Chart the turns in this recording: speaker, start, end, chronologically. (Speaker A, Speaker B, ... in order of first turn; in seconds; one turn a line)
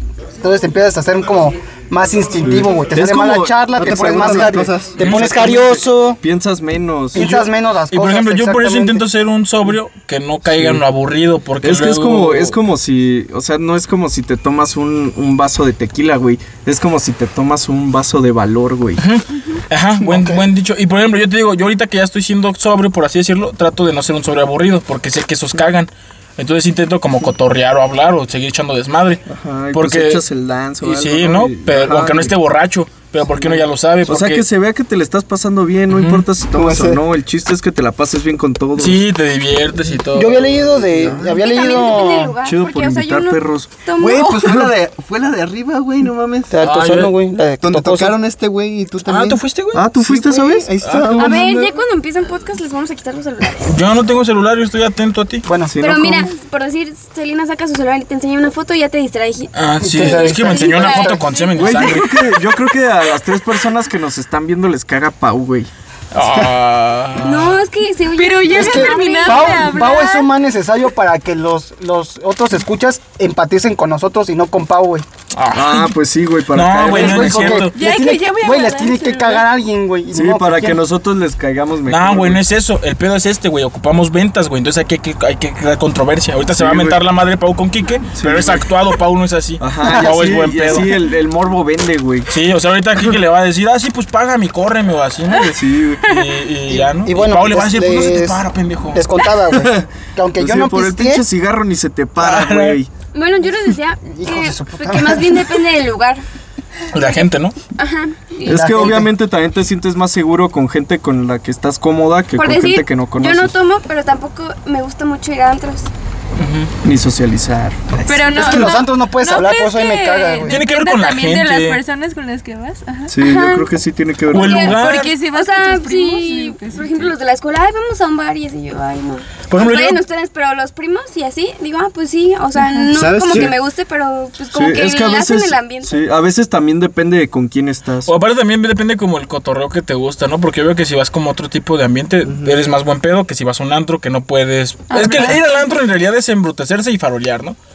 Speaker A: 0.4-6.2
Speaker B: 2.4-7.4
Speaker C: 3.7-5.0
Speaker D: 5.0-5.6
Speaker A: 7.1-9.0
Speaker D: 7.2-12.6
Speaker B: 10.5-10.8
Speaker B: 11.6-19.0
Speaker D: 19.0-30.2
Speaker B: 20.0-20.4
Speaker B: 29.3-32.4
Speaker D: 30.8-34.5
Speaker B: 33.3-39.0
Speaker D: 35.9-36.3
Speaker C: 36.5-37.0
Speaker D: 38.8-40.5
Speaker A: 40.1-42.4
Speaker B: 41.0-41.4
Speaker C: 41.0-41.3
Speaker E: 41.4-44.7
Speaker B: 42.4-43.7
Speaker C: 44.0-46.5
Speaker B: 44.2-44.7
Speaker A: 46.5-48.2
Speaker D: 46.6-47.1
Speaker C: 47.6-51.6
Speaker D: 49.0-49.8
Speaker B: 49.7-51.7
Speaker D: 50.8-51.3
Speaker E: 51.2-53.7
Speaker D: 53.6-55.5
Speaker A: 55.5-55.8
Speaker B: 55.7-56.3
Speaker E: 55.8-62.2
Speaker D: 59.5-62.2
Speaker A: 59.8-61.2
Speaker B: 61.6-65.7
Speaker D: 66.1-67.6
Speaker E: 67.2-70.2
Speaker F: 68.1-70.3
Speaker A: 68.5-75.0
Speaker D: 75.3-76.0
Speaker B: 75.5-77.7
Speaker D: 76.5-77.8
Speaker A: 76.9-80.8
Speaker F: 77.7-79.5
Speaker B: 80.1-82.5
Speaker D: 81.9-91.0
Speaker B: 86.5-87.0
Speaker B: 88.1-88.7
Speaker B: 89.6-92.3
Speaker A: 89.8-90.2
Speaker D: 92.3-99.0
Speaker B: 95.3-96.1
Speaker A: 96.7-98.4
Speaker A: 98.9-101.2
Speaker B: 99.5-99.8
Speaker B: 100.3-102.9
Speaker D: 102.2-102.8
Speaker E: 103.1-106.2
Speaker A: 104.1-105.4
Speaker D: 106.9-107.6
Speaker E: 107.8-109.1
Speaker A: 108.4-109.1
Speaker B: 108.5-113.5
Speaker E: 112.3-115.9
Speaker D: 116.4-116.7
Speaker B: 116.8-117.8
Speaker F: 118.1-123.1
Speaker A: 118.2-120.6
Speaker D: 120.5-121.8
Speaker B: 123.1-124.8
Speaker E: 123.2-123.7
Speaker D: 124.3-125.1
Speaker E: 124.3-136.0
Speaker F: 124.6-127.1
Speaker D: 129.5-130.0
Speaker F: 132.6-132.9
Speaker C: 132.9-133.6
Speaker B: 133.3-133.5
Speaker B: 134.5-138.1
Speaker D: 138.1-147.6
Speaker F: 144.9-145.4